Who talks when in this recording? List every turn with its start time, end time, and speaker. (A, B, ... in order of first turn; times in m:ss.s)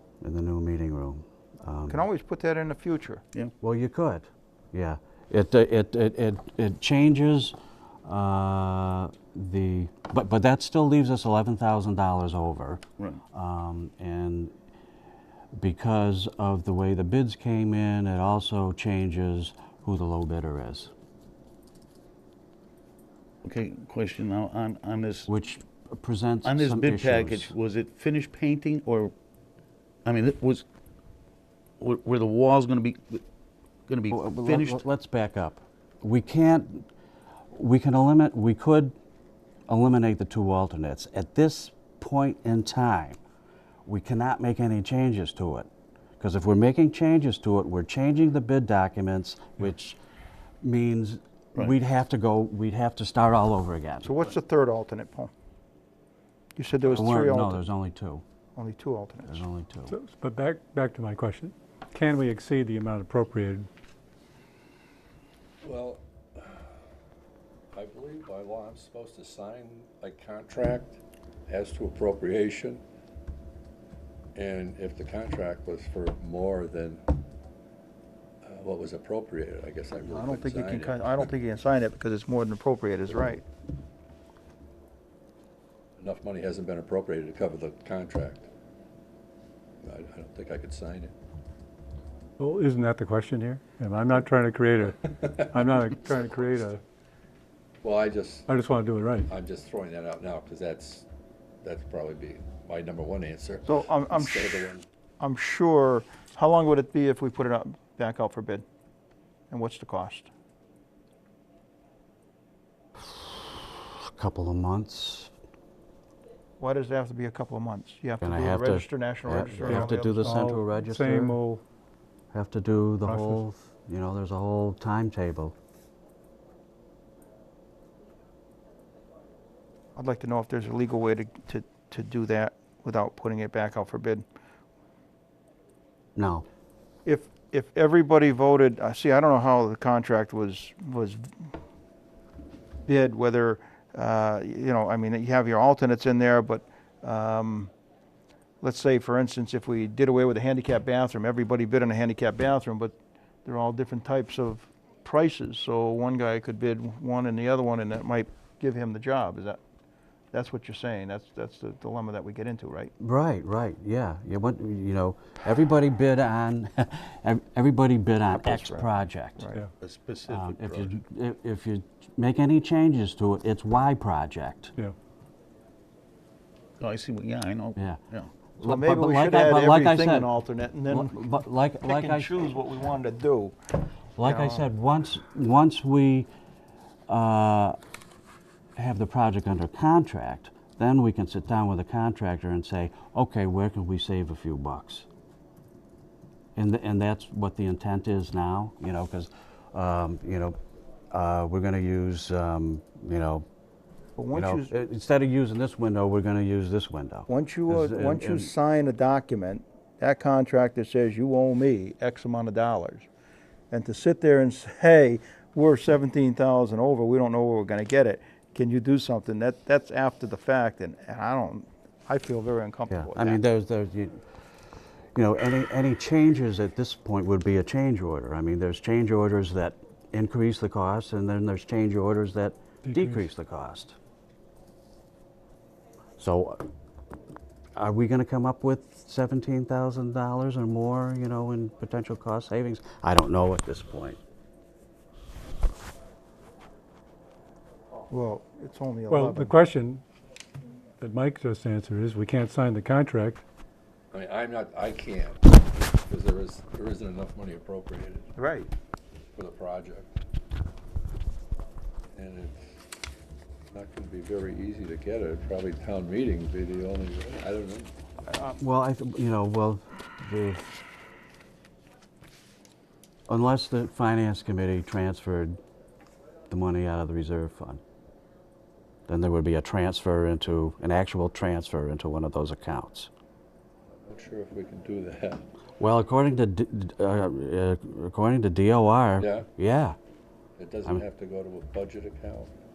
0:00.2-0:02.0 A
0:01.9-0:03.2 B
0:03.6-0:14.5 A
0:15.5-0:20.9 A
0:23.4-0:25.3 C
0:25.3-0:27.5 A
0:26.4-0:29.1 C
0:30.0-0:30.6 C
0:31.8-0:33.2 C
0:33.9-0:34.8 C
0:34.1-0:36.9 A
0:37.5-0:38.9 A
0:39.7-0:43.2 A
0:43.8-0:45.7 A
0:46.2-0:50.0 A
0:50.6-0:54.1 A
0:54.0-0:55.3 B
0:56.6-0:57.6 B
0:56.9-0:58.2 A
0:58.5-0:59.4 B
0:59.3-1:00.0 A
0:59.9-1:03.7 D
1:05.6-1:06.6 E
1:07.7-1:12.8 E
1:14.4-1:17.0 E
1:18.4-1:21.2 E
1:20.0-1:23.4 B
1:26.0-1:28.5 E
1:29.8-1:31.1 E
1:32.4-1:36.8 D
1:37.8-1:38.5 E
1:38.5-1:39.3 D
1:39.3-1:41.0 E
1:41.6-1:44.8 E
1:43.6-1:44.7 B
1:45.2-1:48.6 B
1:49.5-1:50.3 B
1:53.0-1:55.3 A
1:56.6-2:00.5 B
1:58.2-2:01.4 A
1:59.6-2:01.6 D
2:02.3-2:05.5 A
2:03.0-2:03.4 D
2:10.0-2:14.2 B
2:16.2-2:16.4 A
2:17.0-2:21.5 B
2:22.8-2:27.7 B
2:28.6-2:32.9 B
2:33.4-2:39.6 B
2:40.3-2:42.9 B
2:43.0-2:49.5 A
2:48.4-2:49.6 B
2:49.8-2:50.9 C
2:50.3-2:54.7 A
2:56.8-2:58.3 C
2:58.6-3:00.3 A
2:58.6-3:01.2 B
3:00.9-3:02.6 A
3:01.8-3:03.6 B
3:04.2-3:06.3 A
3:04.2-3:04.6 B
3:07.1-3:07.8 A
3:08.8-3:15.1 A
3:16.6-3:20.6 A
3:21.1-3:23.4 A
3:24.2-3:24.7 B
3:24.3-3:28.5 A
3:27.3-3:33.1 B
3:33.7-3:43.4 B
3:42.9-3:44.2 A
3:45.1-3:54.0 A
3:52.8-3:53.3 D
3:56.2-3:56.6 A
3:57.8-4:04.2 A
4:08.1-4:09.6 B
4:09.1-4:10.0 D
4:11.0-4:13.4 D
4:14.1-4:18.3 E
4:18.4-4:18.7 B
4:19.3-4:20.1 E
4:22.1-4:22.8 E
4:23.7-4:27.9 E
4:28.3-4:28.5 B
4:28.6-4:30.7 A
4:33.3-4:35.6 A
4:36.5-4:37.8 A
4:39.1-4:43.1 A
4:44.0-4:45.4 E
4:45.8-4:50.0 A
4:49.2-4:49.5 E
4:50.6-4:52.5 E